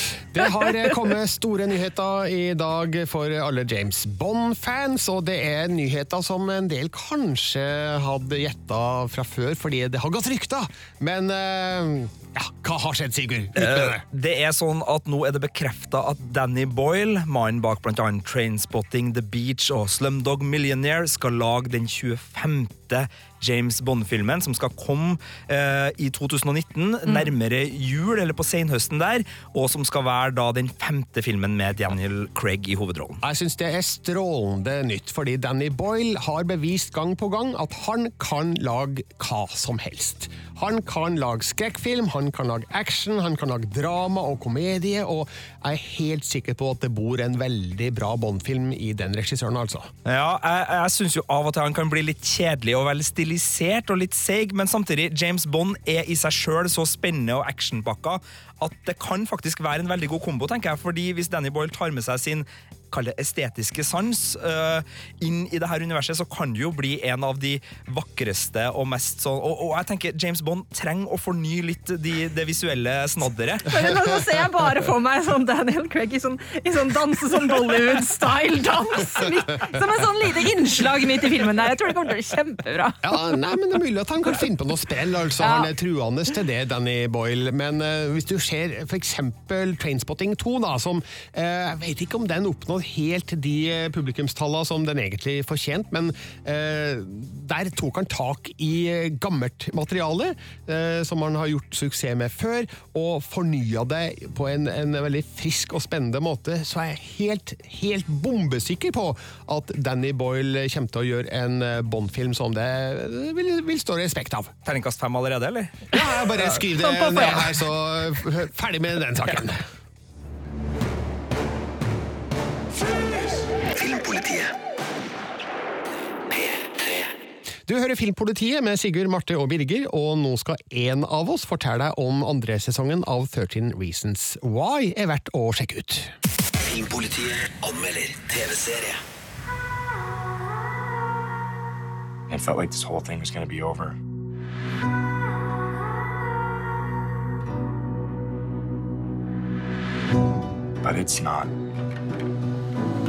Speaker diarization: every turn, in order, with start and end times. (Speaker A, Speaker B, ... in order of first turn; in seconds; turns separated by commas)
Speaker A: 0.3-14.0, Speaker B: 0.4-0.9, Speaker C: 13.6-33.2, Speaker A: 33.2-49.9, Speaker C: 50.0-73.8, Speaker B: 73.7-83.3, Speaker A: 83.0-114.5, Speaker B: 85.4-85.7, Speaker C: 114.6-115.8, Speaker A: 115.9-119.6, Speaker B: 116.8-117.4, Speaker D: 123.7-124.5, Speaker D: 126.3-127.1, Speaker A: 127.7-136.1, Speaker D: 136.6-139.0, Speaker E: 142.3-143.9, Speaker E: 150.8-151.5